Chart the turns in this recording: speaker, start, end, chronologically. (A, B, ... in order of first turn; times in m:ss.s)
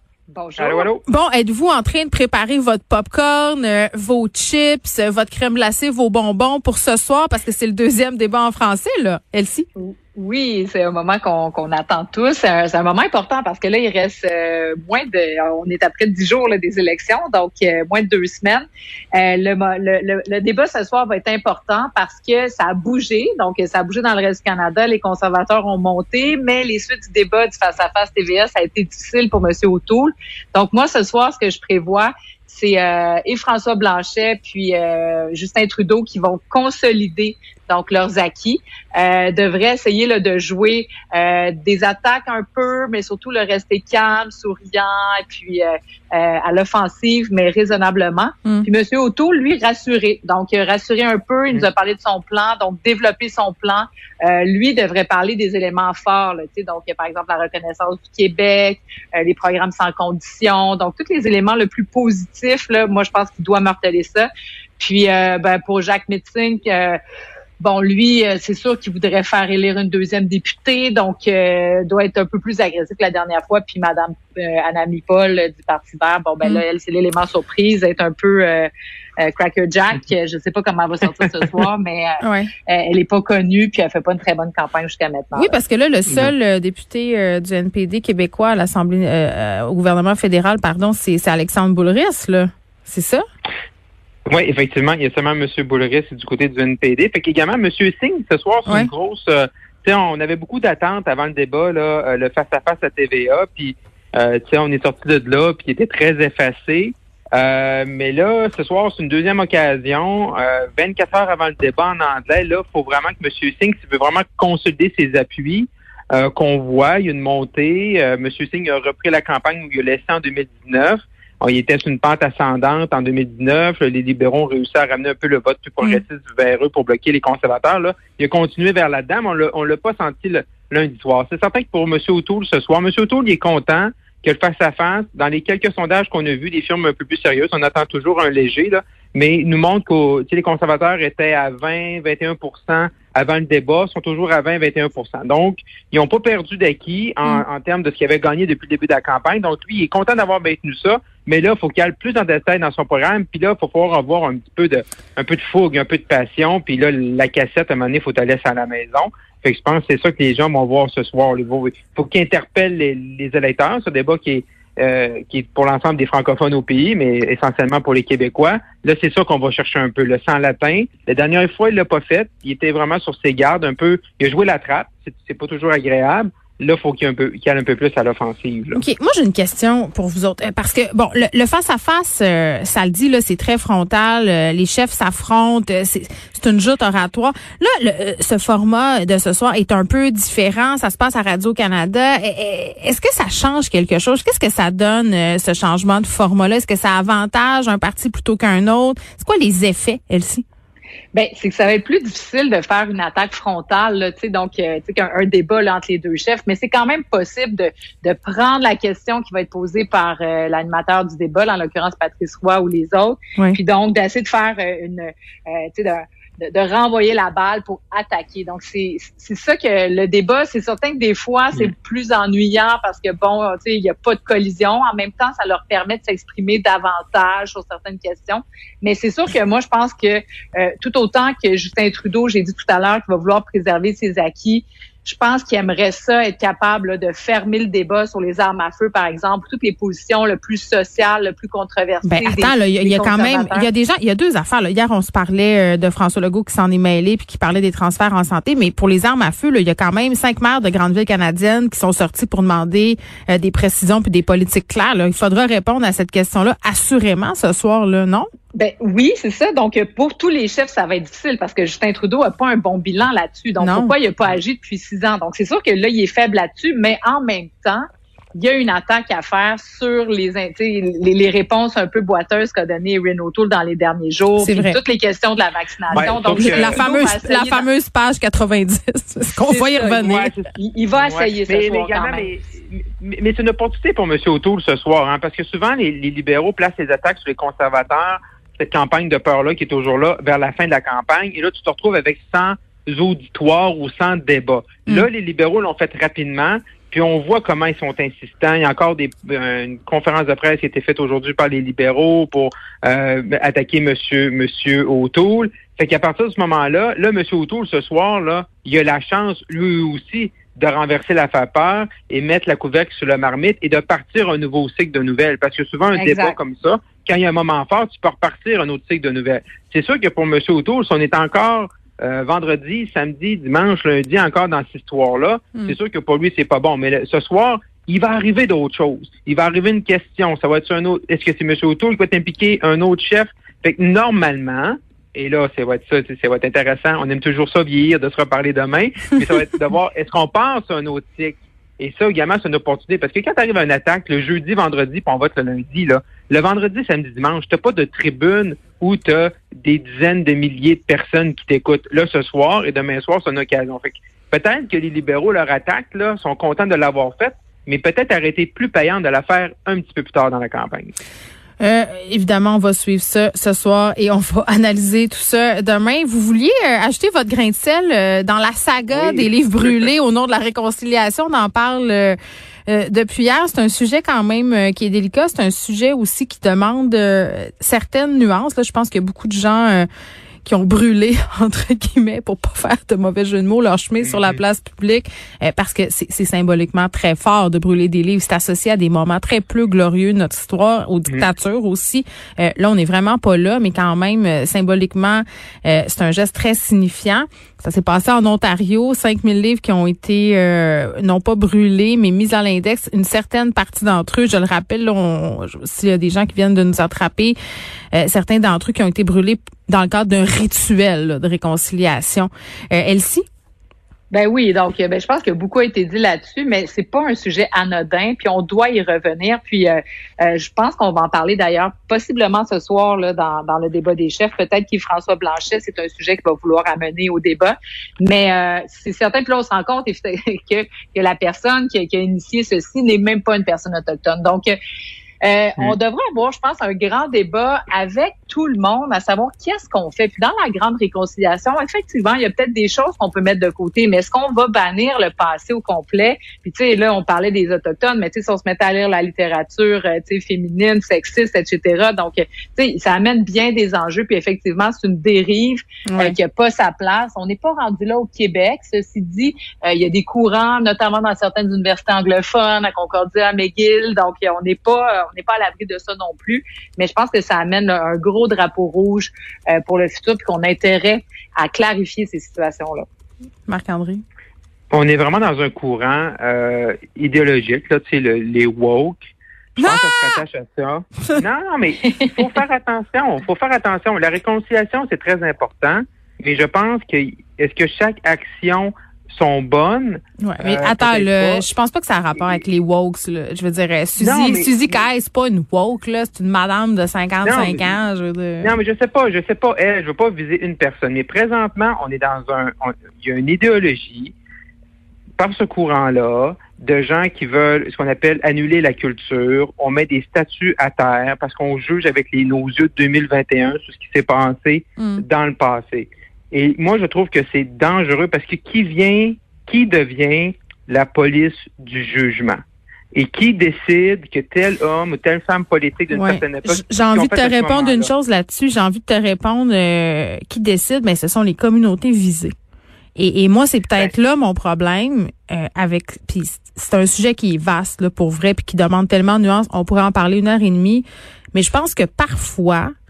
0:00.3-0:00.9 A
0:00.6-0:01.0 B
0:01.0-0:09.6 C
0:09.8-0:18.6 A
0:19.2-1:04.3 A
1:04.8-1:07.0 A
1:07.6-1:18.7 A
1:19.2-1:25.5 A
1:22.2-1:22.5 C
1:25.3-1:33.2 C
1:26.1-1:26.3 B
1:34.3-2:58.8 B
2:58.7-3:20.4 C
3:21.1-4:03.7 A
4:02.0-4:18.3 C
4:18.5-4:37.7 A
4:23.6-4:23.9 C
4:34.4-4:34.8 C
4:35.9-4:36.9 B
4:36.0-4:40.3 C
4:39.4-4:42.3 A
4:39.9-6:00.9 B
5:16.0-5:16.4 A
6:01.6-6:19.9 C
6:08.9-6:09.9 B
6:20.4-6:47.4 C
6:24.0-6:24.4 B
6:47.9-6:53.2 C
6:54.1-7:14.6 A
7:15.2-7:52.9 A
7:35.9-7:36.2 C
7:53.5-7:54.0 C
7:54.7-8:11.4 B
7:59.6-8:00.2 C
8:10.2-8:18.6 C
8:14.0-8:14.8 B
8:17.2-8:17.8 B
8:18.4-8:24.1 B
8:25.2-8:42.4 B
8:34.8-8:35.0 C
8:42.9-8:47.9 B
8:45.9-8:52.3 C
8:53.0-9:02.7 C